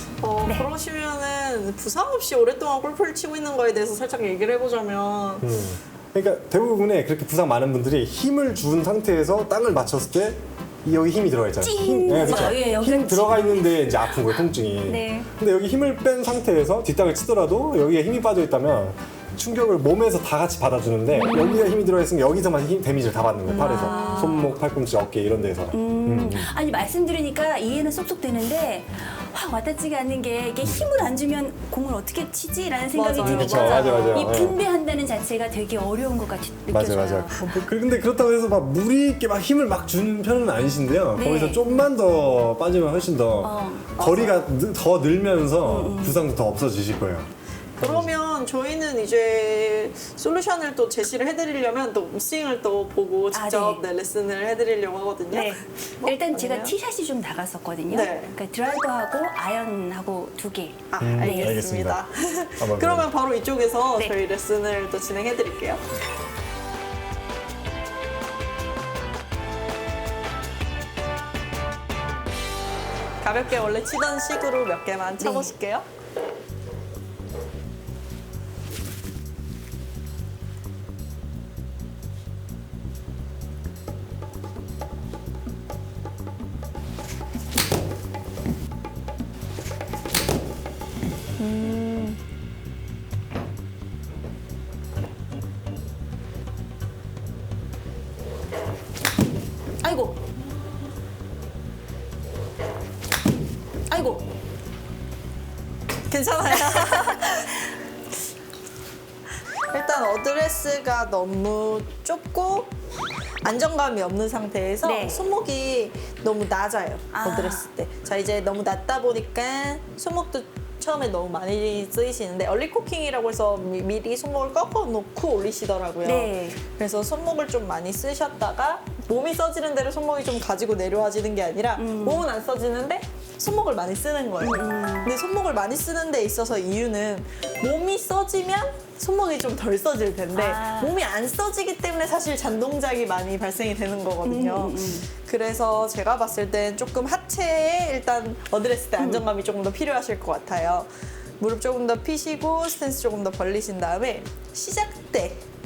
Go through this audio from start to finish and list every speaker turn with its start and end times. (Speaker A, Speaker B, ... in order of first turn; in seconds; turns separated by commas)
Speaker A: 0.2-5.5, Speaker B: 5.4-26.5, Speaker C: 11.6-13.8, Speaker A: 12.3-12.5, Speaker C: 14.8-15.3, Speaker C: 21.2-21.8, Speaker A: 23.5-24.4, Speaker C: 23.5-24.5, Speaker C: 25.7-37.4, Speaker A: 32.9-34.5, Speaker B: 33.2-34.6, Speaker B: 36.7-48.1, Speaker C: 41.2-41.8, Speaker C: 43.4-44.1, Speaker A: 44.0-44.3, Speaker C: 45.6-46.2, Speaker A: 47.8-56.7, Speaker C: 53.3-53.8, Speaker C: 55.3-61.6, Speaker A: 57.9-58.3, Speaker A: 60.9-65.8, Speaker B: 61.0-62.0, Speaker B: 62.6-63.1, Speaker A: 73.2-75.8, Speaker C: 75.2-75.5, Speaker A: 91.4-92.2, Speaker C: 99.8-100.2, Speaker C: 103.9-104.2, Speaker A: 106.1-107.6, Speaker A: 109.7-112.7, Speaker A: 113.4-150.9, Speaker C: 114.8-115.3, Speaker C: 117.1-117.7, Speaker C: 126.0-126.6, Speaker C: 131.8-132.2, Speaker C: 134.4-135.1, Speaker C: 140.3-140.9, Speaker C: 144.2-145.1, Speaker C: 149.0-149.2, Speaker A: 151.4-155.4